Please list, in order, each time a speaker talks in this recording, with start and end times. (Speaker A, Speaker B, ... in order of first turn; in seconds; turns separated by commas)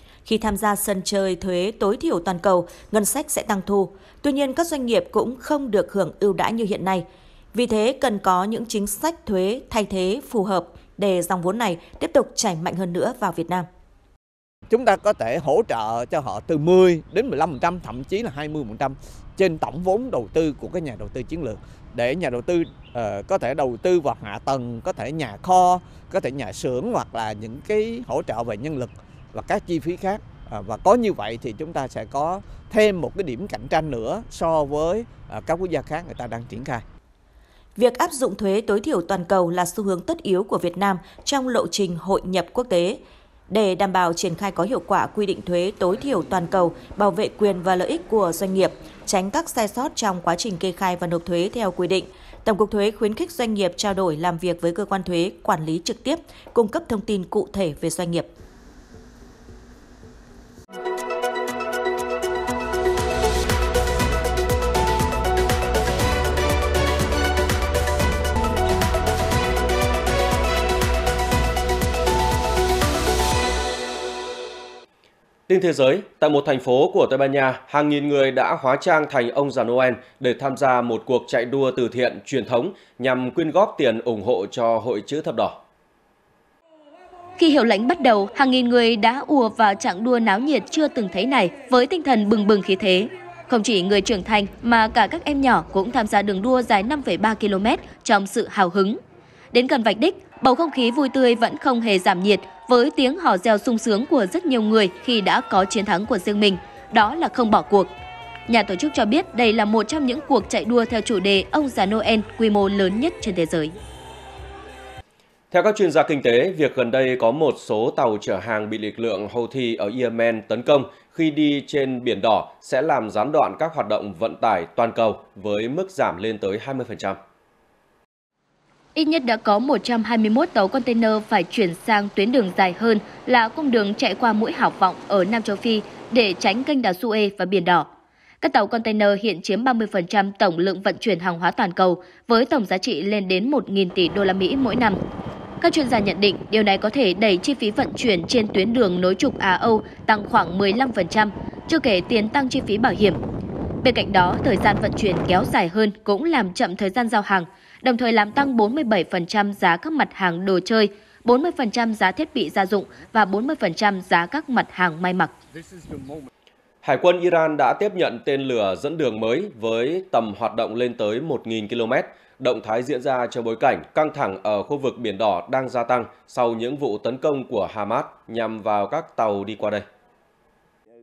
Speaker A: 0.2-13.7, Speaker B: 14.7-36.8, Speaker A: 37.8-58.3, Speaker C: 75.5-85.6, Speaker D: 87.4-99.0, Speaker D: 99.5-107.9, Speaker D: 108.5-113.8, Speaker C: 115.5-127.2, Speaker D: 128.9-137.9, Speaker D: 138.4-145.0, Speaker D: 145.6-153.2, Speaker D: 153.8-165.3, Speaker C: 166.8-179.8